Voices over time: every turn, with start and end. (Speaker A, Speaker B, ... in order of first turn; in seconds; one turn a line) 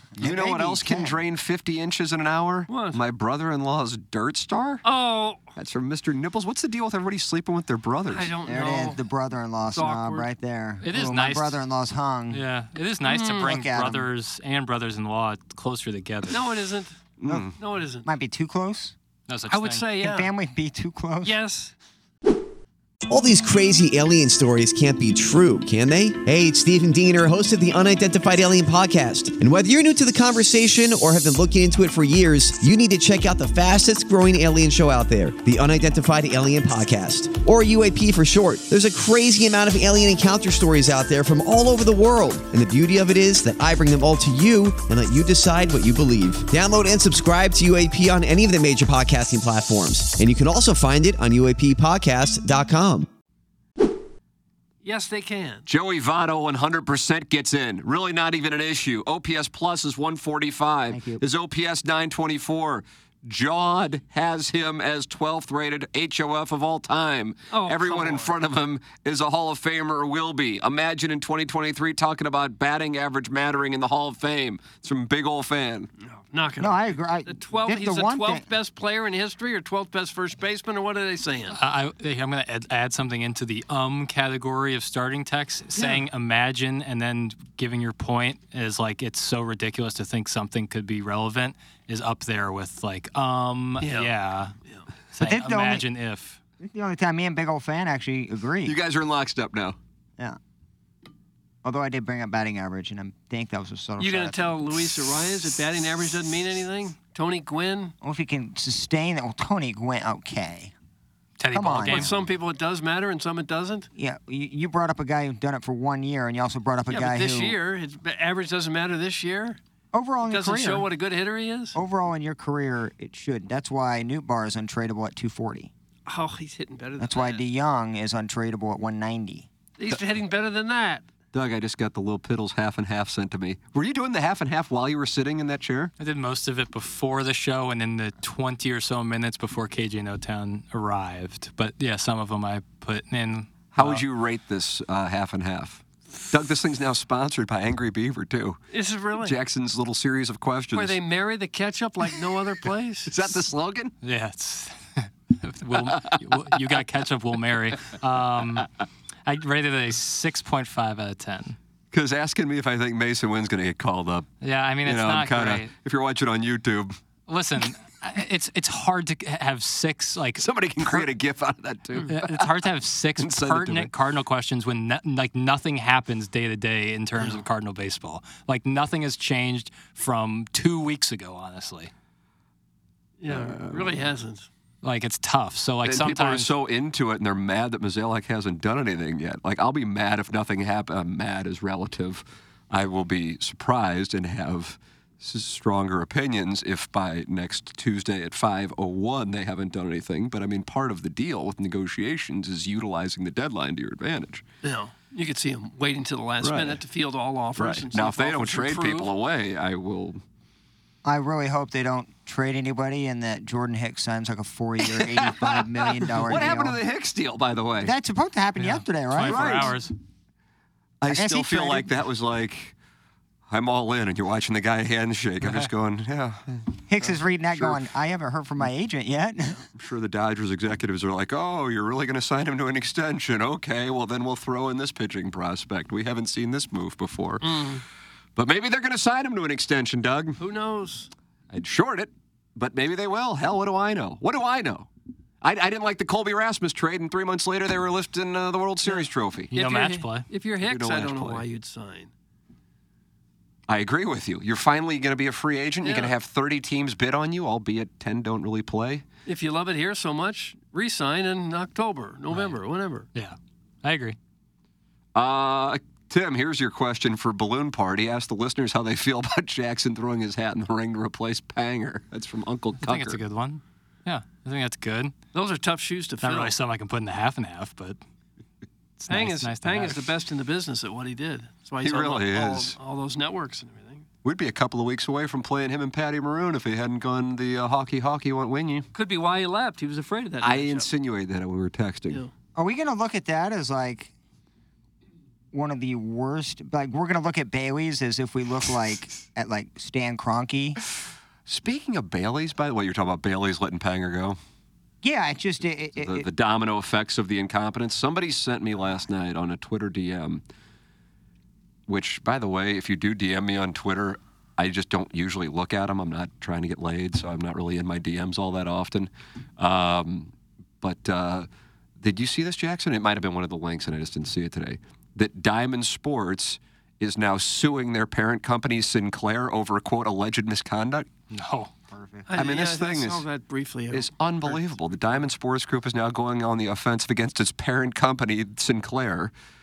Speaker A: 0.2-1.2
Speaker B: 0.2-4.8
Speaker C: 2.7-3.0
Speaker C: 4.8-5.5
Speaker B: 5.5-8.4
Speaker C: 8.1-9.0
Speaker A: 8.4-12.4
Speaker C: 9.7-10.3
Speaker D: 10.8-11.6
Speaker D: 12.3-16.4
Speaker C: 13.0-13.5
Speaker A: 13.3-14.1
Speaker C: 16.3-17.0
Speaker B: 17.2-17.6
Speaker C: 17.6-18.1
Speaker A: 18.0-18.9
Speaker D: 19.3-19.9
Speaker C: 19.5-20.3
Speaker A: 20.0-21.4
Speaker C: 21.2-21.7
Speaker E: 23.1-53.1
Speaker C: 54.8-55.6
Speaker B: 55.7-75.9
Speaker A: 60.9-61.2
Speaker C: 67.5-68.3
Speaker C: 76.0-81.6
Speaker A: 76.6-78.5
Speaker D: 81.5-94.5
Speaker C: 85.8-86.0
Speaker C: 93.8-94.1
Speaker D: 95.1-96.4
Speaker A: 95.2-95.9
Speaker A: 96.6-98.8
Speaker B: 98.6-99.8
Speaker A: 101.6-104.7
Speaker C: 104.0-107.9
Speaker A: 108.0-110.7
Speaker D: 111.4-112.1
Speaker A: 111.5-112.1
Speaker C: 111.9-113.9
Speaker A: 114.0-117.6
Speaker C: 116.9-119.6
Speaker A: 119.9-120.9
Speaker C: 120.3-121.8
Speaker A: 121.7-125.7
Speaker C: 126.1-127.4
Speaker A: 127.0-129.5
Speaker C: 129.8-131.0
Speaker B: 131.3-135.9
Speaker D: 136.0-144.0
Speaker B: 143.7-148.6
Speaker C: 148.7-149.4
Speaker B: 149.2-151.0
Speaker C: 150.7-153.3
Speaker B: 153.1-153.9
Speaker D: 154.0-158.7
Speaker B: 155.9-156.2
Speaker D: 159.2-161.6
Speaker B: 161.9-164.3
Speaker D: 164.4-165.7
Speaker B: 164.8-166.9
Speaker D: 167.3-171.1
Speaker B: 170.4-172.7
Speaker D: 172.1-181.9
Speaker B: 173.2-173.9
Speaker C: 183.2-184.5
Speaker B: 183.3-184.1
Speaker D: 184.8-186.5
Speaker B: 185.8-204.4
Speaker C: 204.6-209.1
Speaker B: 206.4-206.8
Speaker B: 207.6-210.2
Speaker A: 211.0-216.8
Speaker B: 214.9-217.9
Speaker A: 217.8-219.7
Speaker D: 218.6-219.9
Speaker B: 219.2-219.8
Speaker B: 221.0-222.7
Speaker A: 221.1-221.9
Speaker B: 223.5-226.8
Speaker D: 225.4-225.7
Speaker A: 226.9-229.6
Speaker B: 229.7-237.6
Speaker C: 237.4-237.8
Speaker B: 238.4-240.4
Speaker C: 240.4-241.1
Speaker B: 241.5-244.9
Speaker B: 245.4-249.5
Speaker C: 248.9-252.1
Speaker D: 249.5-250.3
Speaker B: 250.6-251.4
Speaker B: 253.7-259.0
Speaker C: 255.8-256.1
Speaker C: 259.2-263.1
Speaker D: 263.1-264.1
Speaker B: 265.1-273.2
Speaker D: 272.8-275.1
Speaker C: 275.3-276.6
Speaker D: 276.2-278.0
Speaker D: 279.0-280.0
Speaker C: 279.1-284.1
Speaker B: 281.8-282.8
Speaker B: 284.2-288.9
Speaker C: 288.9-290.9
Speaker B: 290.4-292.2
Speaker A: 292.6-294.1
Speaker A: 295.5-300.8
Speaker B: 301.4-304.4
Speaker A: 305.0-306.3
Speaker B: 306.0-310.4
Speaker B: 311.9-321.5
Speaker B: 322.0-331.1
Speaker D: 331.3-331.7
Speaker A: 331.9-332.3
Speaker C: 332.3-334.8
Speaker B: 332.4-333.2
Speaker B: 333.9-339.3